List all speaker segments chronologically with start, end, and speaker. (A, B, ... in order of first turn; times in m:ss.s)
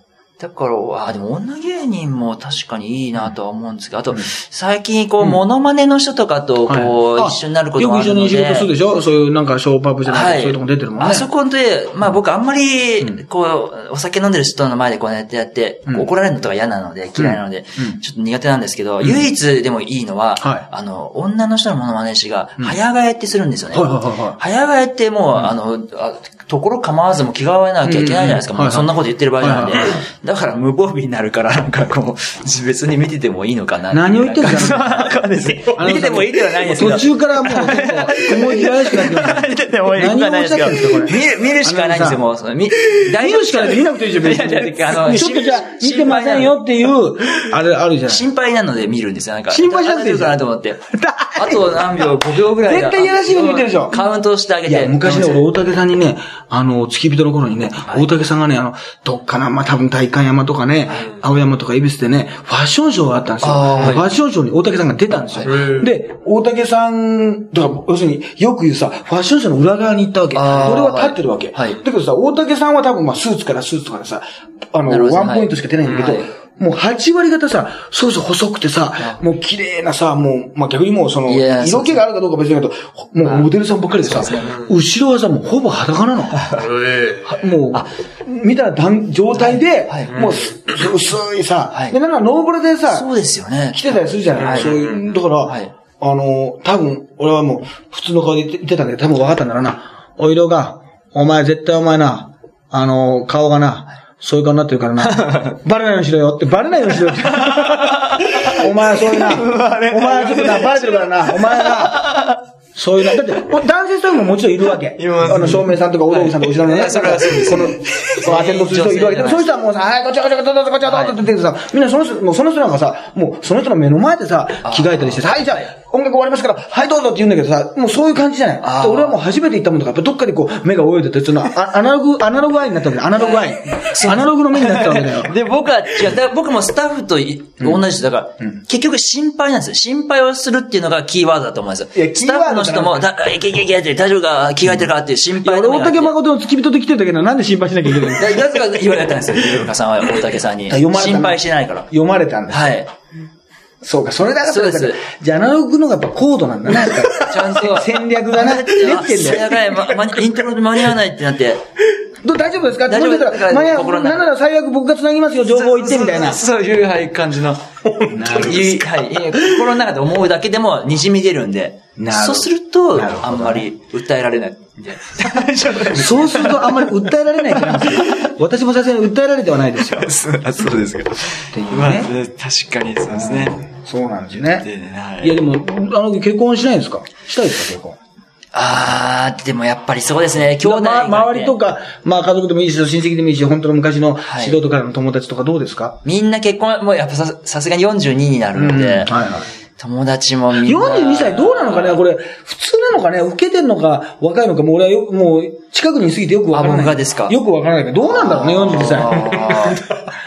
0:00.4-0:08.7 A
0:06.7-0:11.3 B
0:10.1-0:46.6 A
0:17.2-0:18.0 B
0:20.4-0:20.7 B
0:23.7-0:24.4 B
0:27.8-0:30.0 B
0:33.9-0:42.2 B
0:43.0-0:48.2 B
0:48.1-0:50.8 A
0:49.5-0:50.4 B
0:50.9-0:51.8 B
0:51.4-0:55.5 A
0:52.6-0:54.0 B
0:54.6-1:26.4 B
1:03.4-1:04.1 A
1:05.4-1:05.9 C
1:10.3-1:11.8 A
1:14.9-1:16.3 A
1:21.3-1:22.1 A
1:24.0-1:24.6 A
1:26.6-1:27.4 C
1:27.3-1:33.1 B
1:29.4-1:30.2 A
1:30.1-1:30.5 C
1:32.9-1:34.7 A
1:33.7-1:52.1 B
1:34.4-1:35.0 C
1:35.4-1:35.7 A
1:45.0-1:45.6 A
1:47.3-1:52.4 A
1:52.8-2:15.3 B
1:55.0-1:59.5 A
2:00.9-2:01.2 A
2:04.6-2:05.2 A
2:08.6-2:09.2 A
2:13.2-2:26.2 A
2:22.0-2:23.1 B
2:25.4-2:28.4 B
2:28.1-2:31.9 A
2:30.7-2:32.8 B
2:32.5-2:32.9 A
2:33.8-2:40.1 B
2:34.5-2:35.0 A
2:37.1-2:41.6 A
2:42.2-2:46.4 B
2:42.9-2:44.3 A
2:45.5-2:57.0 A
2:48.1-2:48.8 B
2:52.0-2:53.7 B
2:55.9-3:00.1 B
2:57.5-2:58.3 A
2:59.9-3:03.6 A
3:01.5-3:02.1 B
3:03.1-3:04.7 B
3:04.5-3:05.4 A
3:05.2-3:08.0 B
3:08.5-3:11.6 A
3:10.6-3:16.0 B
3:14.3-3:14.6 A
3:16.0-3:19.2 A
3:18.6-3:19.5 B
3:19.8-3:22.0 A
3:20.5-3:29.7 B
3:26.5-3:27.4 A
3:28.1-3:30.0 A